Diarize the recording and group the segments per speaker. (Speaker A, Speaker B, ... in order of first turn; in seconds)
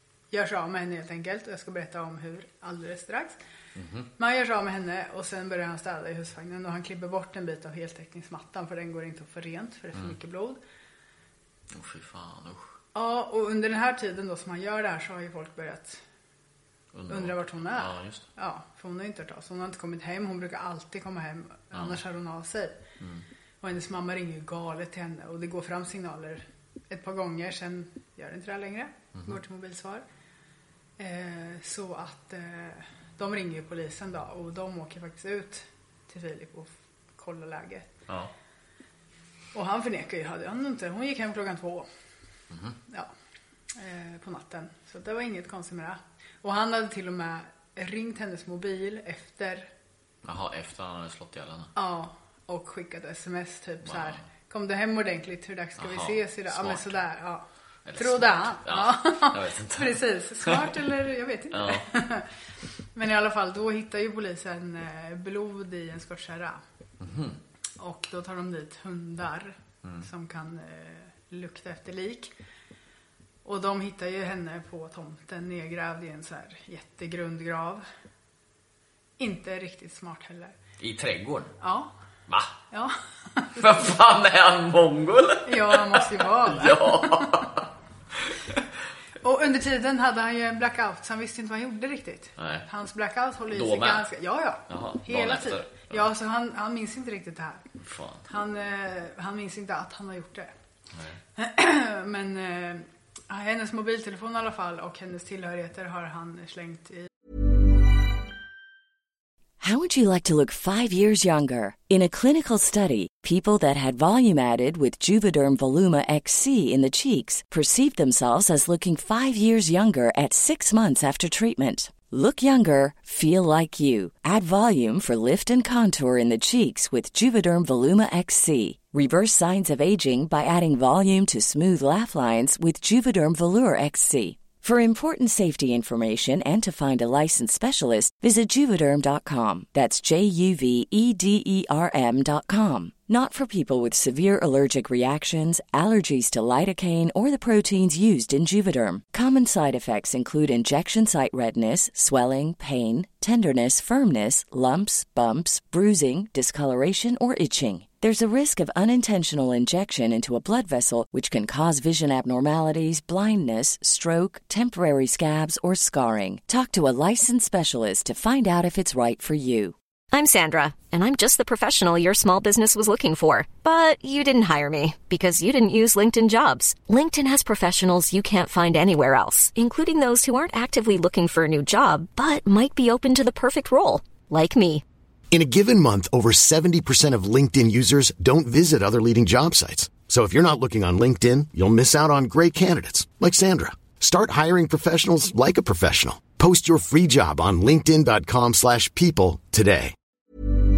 Speaker A: 0.3-3.4, 4.2-10.6, 12.9-16.0, 17.1-22.8, 23.6-30.0, 31.0-37.9, 39.5-41.9, 43.8-49.7, 51.8-57.5, 58.0-62.3, 63.0-66.6, 67.8-72.3, 73.5-77.8, 79.2-80.5, 81.6-81.9, 82.7-83.6, 85.5-87.5, 89.2-97.6, 98.3-100.5, 101.4-107.1
Speaker B: 3.8-4.1, 11.7-12.7, 16.9-18.2, 21.7-22.0, 23.0-23.2, 42.5-42.8, 50.2-51.7, 53.9-54.2, 55.8-57.0, 57.9-60.8, 61.5-61.9, 67.0-67.4, 80.8-81.5, 83.6-87.7, 88.2-88.6, 92.4-92.7, 93.5-94.1, 94.7-96.1, 97.8-98.3, 100.9-101.2
Speaker C: 109.6-169.8
Speaker D: 170.1-184.8
Speaker E: 185.3-199.9